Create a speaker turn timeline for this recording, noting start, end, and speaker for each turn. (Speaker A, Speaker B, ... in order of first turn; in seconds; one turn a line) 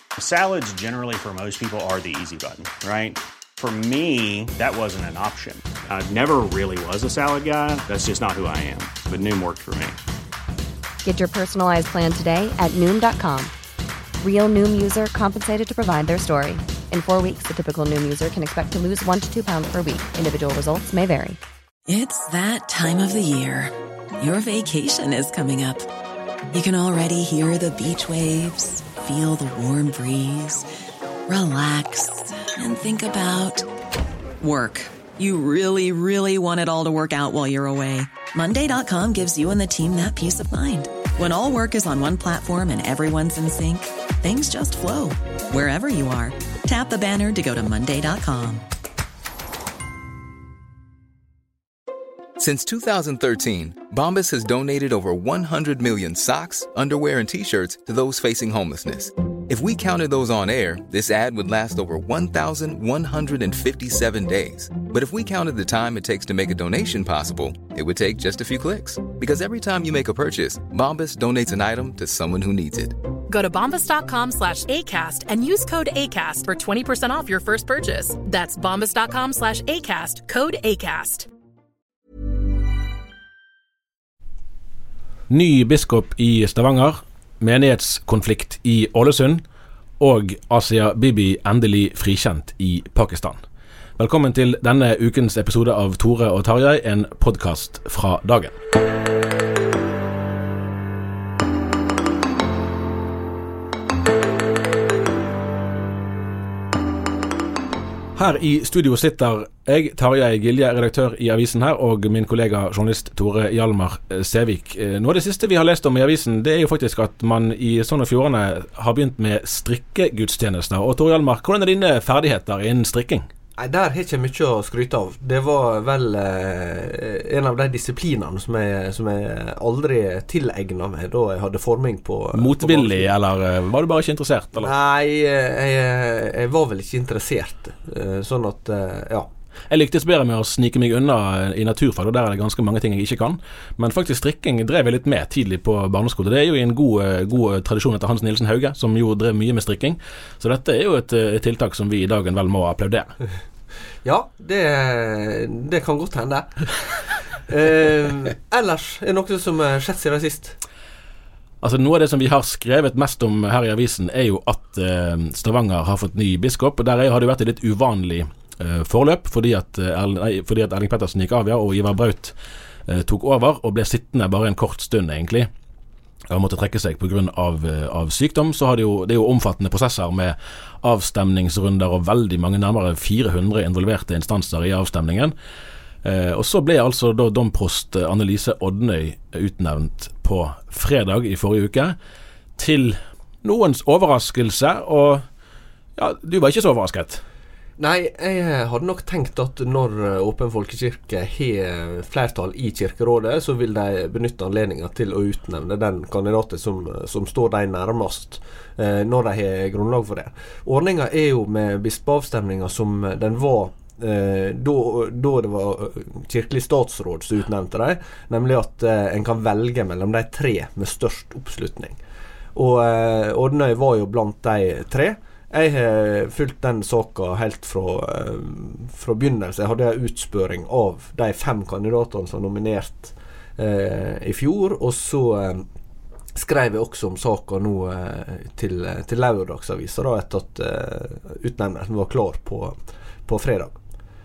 Speaker A: 0.2-10.0
Speaker B: 11.0-13.5
Speaker B: 14.2-21.4
Speaker C: 21.9-25.9
Speaker C: 26.5-30.7
Speaker C: 31.3-33.7
Speaker C: 34.4-48.6
Speaker D: 52.4-73.0
Speaker E: 73.3-81.3
Speaker F: 85.3-89.4
Speaker F: 90.0-93.4
Speaker F: 94.0-98.6
Speaker F: 108.2-123.3
Speaker G: 123.6-133.1
Speaker F: 132.3-134.7
Speaker G: 134.6-139.3
Speaker F: 139.7-153.1
Speaker G: 154.0-160.6
Speaker F: 161.6-172.3
Speaker F: 172.9-175.5
Speaker F: 176.3-185.3
Speaker F: 186.0-192.0
Speaker F: 192.6-195.2
Speaker F: 196.0-197.2
Speaker G: 197.8-222.0
Speaker G: 222.6-235.7
Speaker G: 236.3-243.8